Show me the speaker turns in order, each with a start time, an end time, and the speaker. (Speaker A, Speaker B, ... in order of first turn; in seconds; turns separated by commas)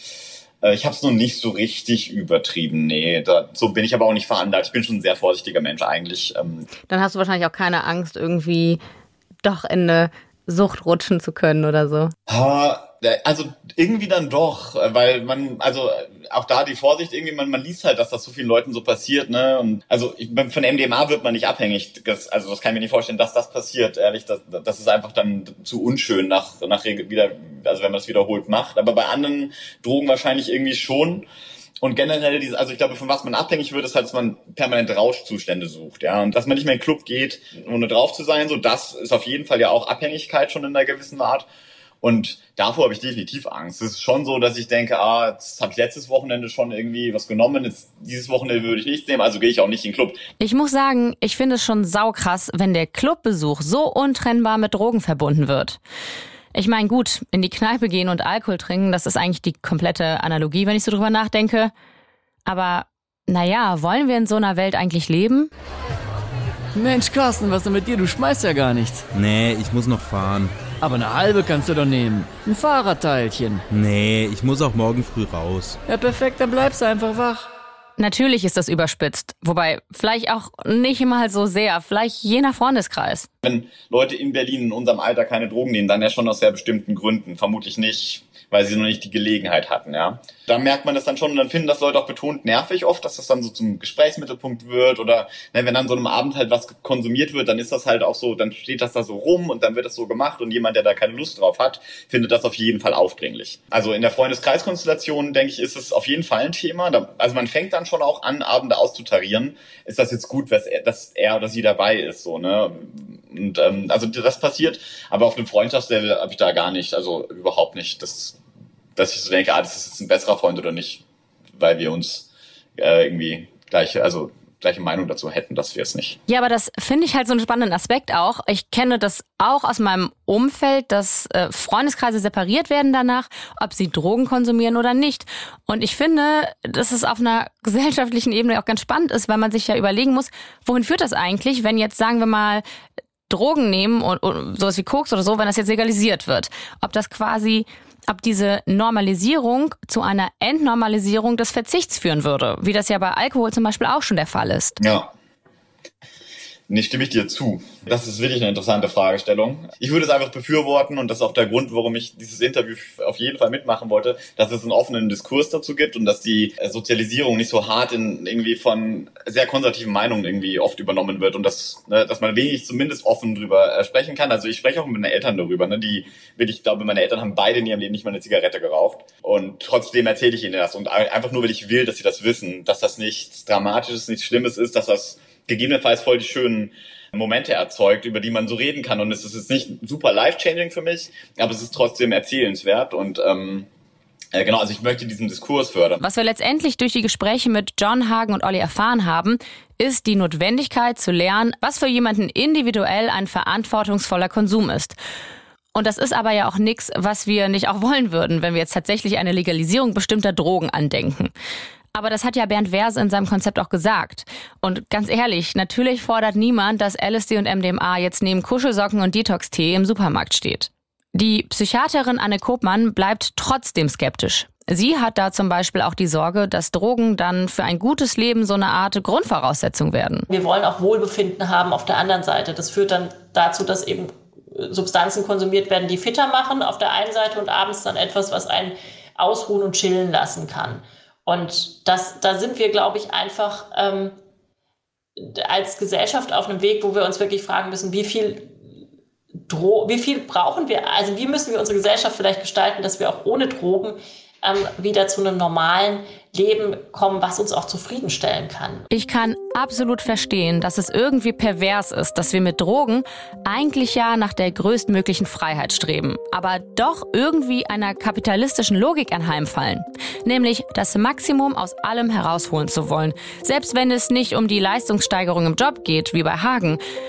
Speaker A: 0.6-6.7, Speaker B: 6.9-8.8, Speaker B: 9.4-12.1, Speaker A: 12.3-31.3, Speaker A: 31.8-41.5, Speaker A: 42.0-50.2, Speaker B: 50.4-55.8, Speaker B: 56.5-61.7, Speaker B: 62.5-65.5, Speaker C: 66.8-69.0, Speaker D: 69.1-70.7, Speaker C: 70.8-73.6, Speaker D: 73.7-75.8, Speaker C: 75.9-77.4, Speaker B: 78.0-83.3, Speaker A: 83.4-118.4, Speaker A: 119.0-121.0, Speaker A: 121.6-126.2, Speaker B: 126.3-142.6, Speaker B: 143.3-154.8, Speaker A: 154.8-155.1, Speaker A: 156.7-193.7, Speaker A: 194.3-196.0, Speaker B: 196.0-205.0, Speaker B: 205.7-211.3, Speaker B: 211.9-230.3, Speaker E: 230.3-244.2, Speaker E: 245.2-248.5, Speaker E: 249.5-258.9, Speaker B: 258.9-276.8